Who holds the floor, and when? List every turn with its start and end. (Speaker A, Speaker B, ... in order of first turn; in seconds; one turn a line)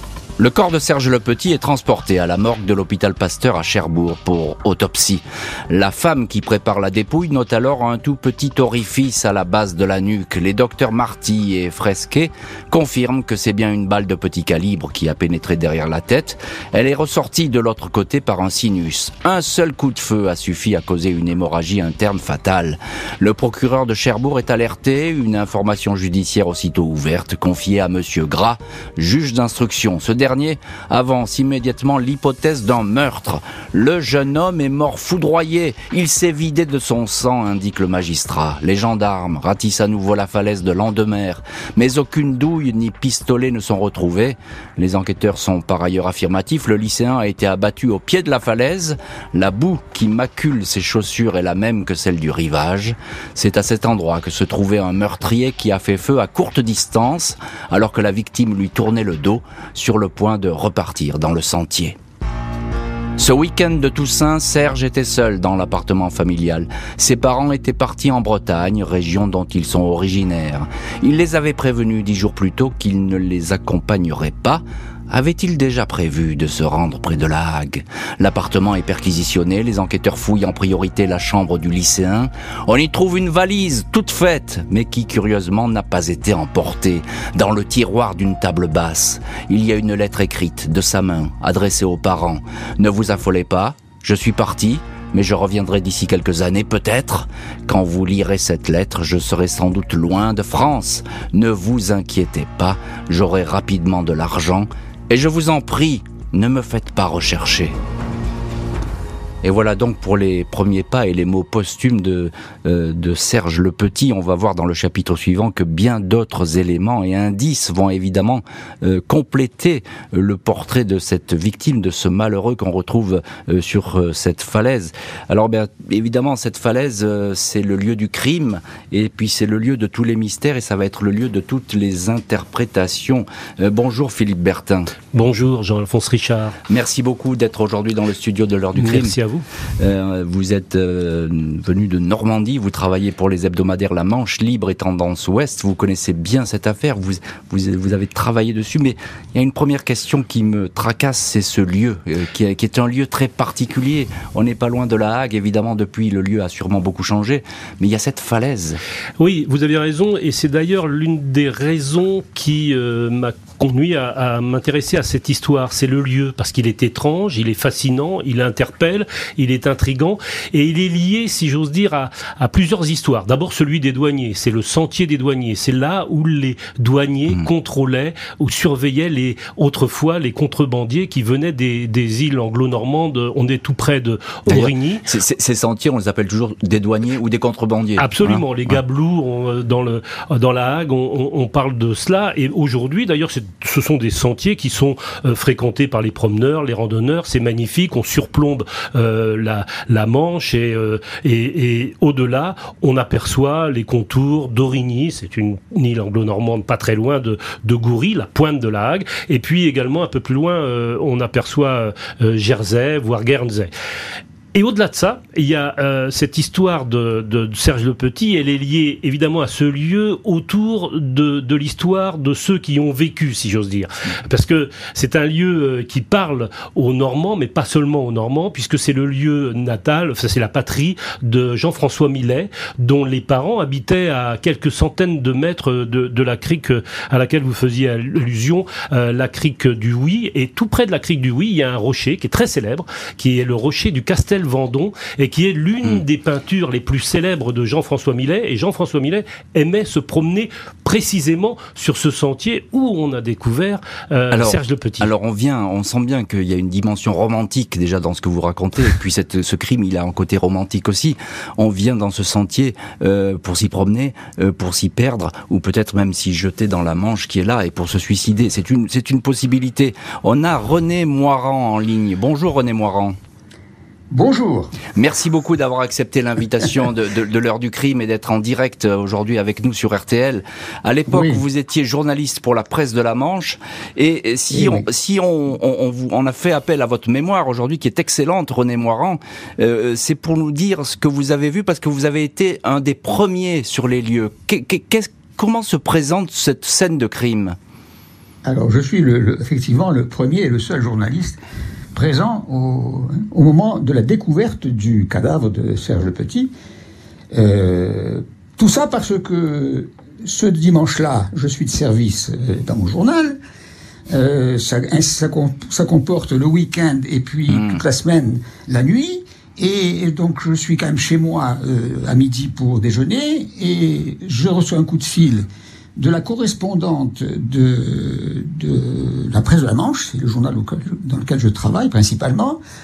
Speaker A: 0.4-62.0
Speaker A: 63.2-107.7
Speaker A: 109.4-134.9
Speaker B: 135.1-136.6
Speaker A: 136.7-139.1
Speaker B: 138.8-139.4
Speaker A: 139.8-158.8
Speaker B: 159.2-185.0
Speaker A: 184.5-188.4
Speaker B: 188.0-213.7
Speaker B: 214.5-255.1
Speaker A: 254.3-273.2
Speaker C: 274.1-274.8
Speaker A: 275.0-297.6
Speaker C: 281.1-281.4
Speaker C: 284.5-284.9
Speaker C: 298.4-301.4
Speaker C: 301.9-306.5
Speaker C: 307.3-313.4
Speaker C: 314.1-325.5
Speaker A: 317.5-317.8
Speaker C: 326.0-332.6